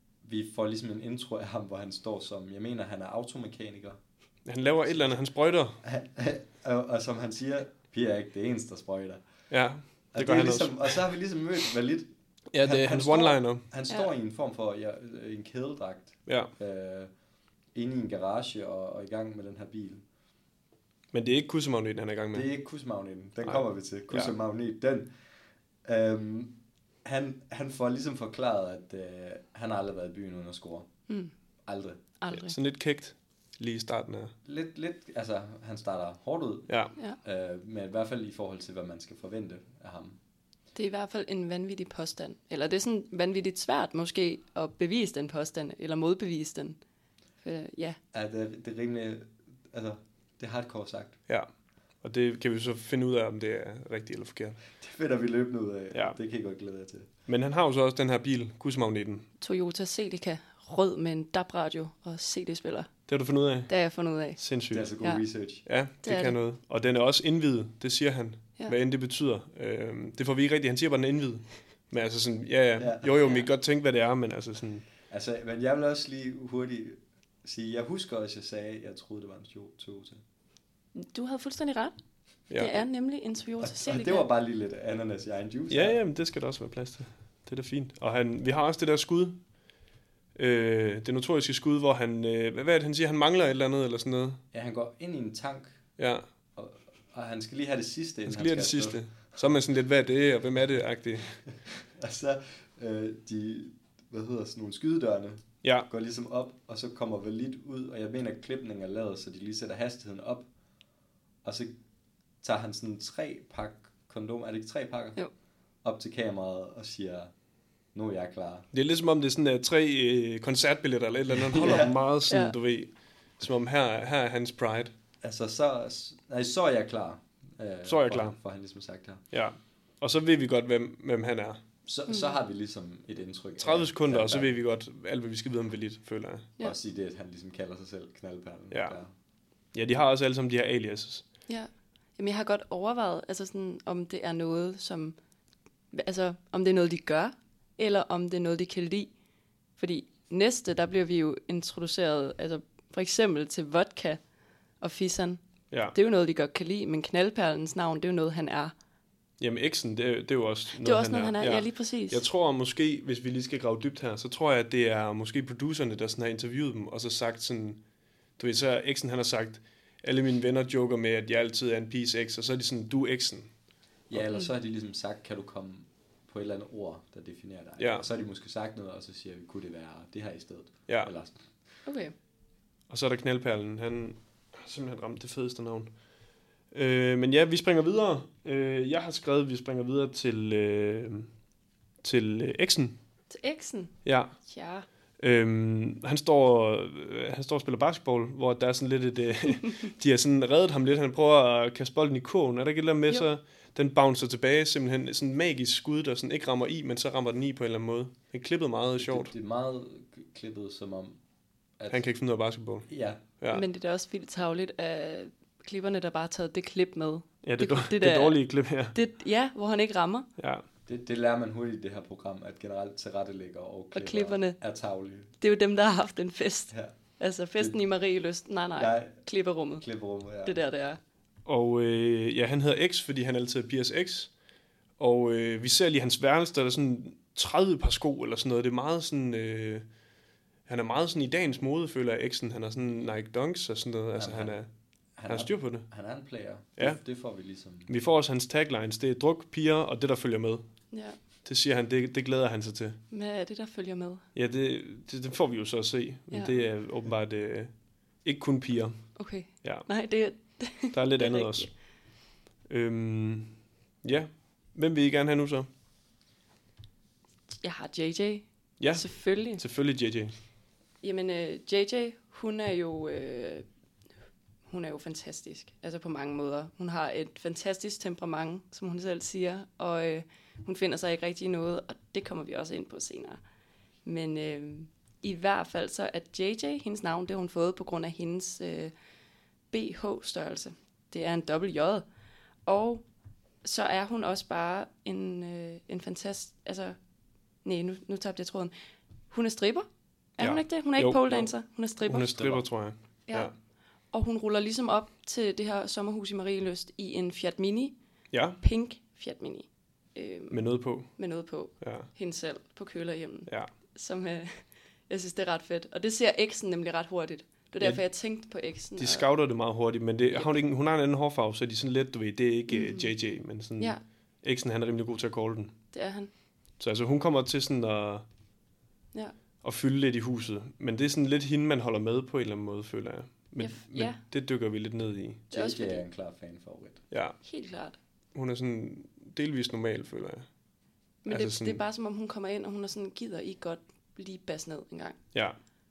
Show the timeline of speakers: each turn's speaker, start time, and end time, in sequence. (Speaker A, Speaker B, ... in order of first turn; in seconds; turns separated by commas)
Speaker A: 0.2-4.0, Speaker B: 4.5-5.8, Speaker A: 4.8-5.2, Speaker A: 5.8-9.2, Speaker B: 9.5-11.0, Speaker A: 10.1-17.1, Speaker B: 12.5-13.6, Speaker B: 16.2-16.5, Speaker A: 17.7-20.0, Speaker B: 21.1-22.5, Speaker A: 22.3-25.1, Speaker B: 23.4-24.3, Speaker A: 25.8-30.9, Speaker A: 31.6-32.0, Speaker C: 32.2-32.5, Speaker B: 32.3-34.3, Speaker A: 34.4-40.2, Speaker B: 36.7-36.9, Speaker C: 40.7-46.8, Speaker C: 47.4-48.0, Speaker A: 48.1-51.2, Speaker B: 52.0-54.6, Speaker A: 54.8-57.1, Speaker B: 55.9-56.2, Speaker B: 57.3-59.3, Speaker C: 59.4-62.9, Speaker B: 63.1-63.8, Speaker C: 63.7-64.4, Speaker B: 64.3-64.9, Speaker A: 64.7-65.7, Speaker B: 65.7-74.9, Speaker C: 66.0-66.4, Speaker A: 72.8-73.1, Speaker C: 73.2-73.5, Speaker A: 75.1-80.2, Speaker C: 80.9-82.0, Speaker B: 82.5-82.8, Speaker C: 82.5-84.2, Speaker A: 83.6-86.0, Speaker B: 85.7-89.4, Speaker B: 90.3-94.4, Speaker A: 94.5-95.8, Speaker B: 96.0-96.2, Speaker A: 96.5-99.4, Speaker B: 98.3-101.4, Speaker A: 101.8-110.5, Speaker B: 105.6-105.9, Speaker A: 111.4-111.7, Speaker A: 112.4-115.2, Speaker A: 115.8-117.3, Speaker A: 117.9-118.7, Speaker B: 118.7-124.9, Speaker A: 121.3-122.0, Speaker C: 122.3-122.5, Speaker A: 125.2-129.2, Speaker B: 127.8-128.4, Speaker B: 129.3-131.6, Speaker A: 131.8-134.5, Speaker C: 132.1-132.3, Speaker B: 133.6-136.5, Speaker A: 136.6-139.1, Speaker B: 138.7-139.0, Speaker B: 139.7-141.2, Speaker C: 141.5-145.2, Speaker C: 145.9-149.1, Speaker C: 149.8-154.2, Speaker C: 154.8-155.4, Speaker C: 155.9-158.7, Speaker B: 159.4-167.8, Speaker C: 160.8-162.2, Speaker B: 168.4-173.5, Speaker A: 174.1-181.4, Speaker B: 177.8-178.1, Speaker C: 181.8-182.1, Speaker B: 182.9-185.9, Speaker B: 186.7-191.3, Speaker B: 192.0-193.0, Speaker C: 193.3-194.8, Speaker B: 194.0-194.4, Speaker B: 195.2-209.3, Speaker A: 209.0-211.2, Speaker A: 211.8-212.1, Speaker B: 211.9-213.6, Speaker A: 212.9-213.2, Speaker C: 213.5-220.3, Speaker B: 217.4-219.0, Speaker B: 220.4-220.6, Speaker A: 220.8-225.3, Speaker C: 223.9-224.6, Speaker C: 225.4-229.8, Speaker A: 228.8-230.6, Speaker C: 230.4-231.0, Speaker B: 231.4-234.3, Speaker B: 235.0-239.8, Speaker B: 240.7-244.7, Speaker A: 244.1-244.6, Speaker A: 245.2-247.9, Speaker B: 245.3-245.9, Speaker B: 246.8-247.2, Speaker B: 247.8-250.7, Speaker C: 250.9-251.2, Speaker B: 251.4-253.0, Speaker C: 253.1-254.2, Speaker B: 254.3-259.9, Speaker C: 256.3-256.6, Speaker C: 259.1-261.7, Speaker B: 260.9-261.9, Speaker B: 262.7-265.7, Speaker C: 267.6-269.6, Speaker B: 268.8-270.3, Speaker C: 271.0-273.6, Speaker C: 274.7-283.4, Speaker C: 284.0-288.9, Speaker C: 289.7-292.0, Speaker C: 292.6-293.0, Speaker C: 293.6-296.9, Speaker C: 297.6-298.7, Speaker C: 299.3-302.6, Speaker B: 300.4-303.5, Speaker A: 302.4-302.6, Speaker C: 304.1-307.9, Speaker B: 308.3-308.6, Speaker C: 308.6-319.3, Speaker B: 310.5-312.1, Speaker B: 318.9-325.8, Speaker C: 322.7-323.1, Speaker C: 325.9-326.3, Speaker B: 326.8-328.2, Speaker B: 329.6-335.4, Speaker C: 333.6-334.2, Speaker A: 335.5-337.0, Speaker C: 335.5-336.0, Speaker B: 337.1-337.4, Speaker C: 337.4-338.0, Speaker B: 338.3-340.5, Speaker C: 341.2-345.2, Speaker B: 341.3-341.8